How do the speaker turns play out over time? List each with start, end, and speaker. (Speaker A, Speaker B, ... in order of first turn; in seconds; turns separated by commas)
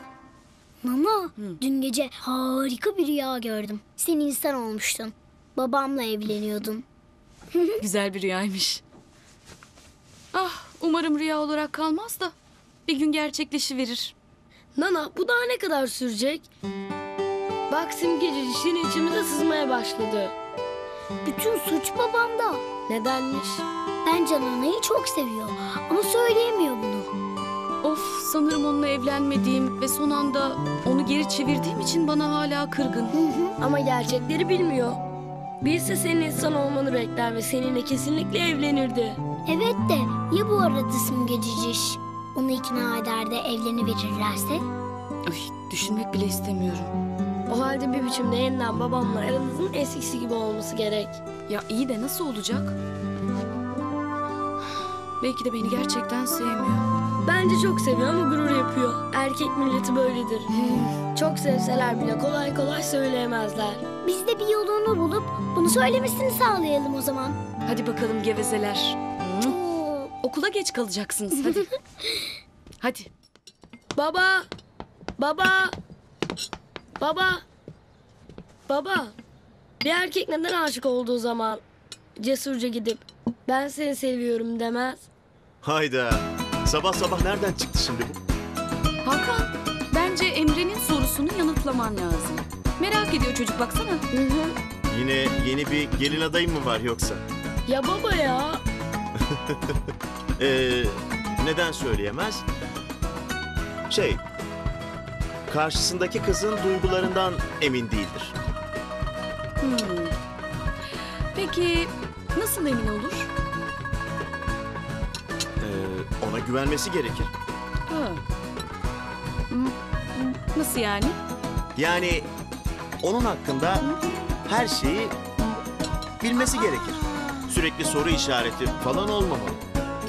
Speaker A: 0.8-6.8, Speaker A: 7.5-7.8, Speaker B: 7.8-8.8, Speaker B: 10.3-12.3, Speaker B: 12.9-14.1, Speaker C: 14.8-16.5, Speaker C: 17.7-20.3, Speaker A: 21.2-22.6, Speaker C: 22.9-23.6, Speaker A: 24.1-27.1, Speaker B: 27.8-33.1, Speaker A: 33.1-33.5, Speaker C: 33.6-35.0, Speaker C: 35.6-39.2, Speaker A: 39.5-44.6, Speaker B: 45.3-46.9, Speaker C: 47.5-51.2, Speaker B: 51.5-52.8, Speaker B: 55.2-56.9, Speaker C: 57.2-60.5, Speaker B: 60.5-61.0, Speaker C: 61.1-63.9, Speaker A: 64.0-67.4, Speaker B: 67.7-69.6, Speaker A: 69.4-70.1, Speaker B: 70.2-71.7, Speaker B: 72.8-73.1, Speaker C: 74.0-74.5, Speaker C: 75.2-75.8, Speaker C: 77.0-77.4, Speaker C: 78.7-79.1, Speaker C: 79.8-81.6, Speaker C: 82.2-85.1, Speaker D: 85.6-88.2, Speaker B: 89.0-94.0, Speaker C: 94.1-94.5, Speaker D: 94.9-97.2, Speaker C: 97.7-98.6, Speaker D: 99.3-99.7, Speaker D: 100.4-102.4, Speaker D: 103.9-104.2, Speaker D: 105.5-108.3, Speaker B: 109.6-110.2, Speaker B: 111.3-113.3, Speaker D: 115.6-117.3, Speaker B: 117.9-118.2, Speaker B: 120.3-121.2, Speaker D: 121.8-122.3, Speaker D: 123.0-123.8, Speaker D: 124.5-125.2, Speaker D: 126.2-129.6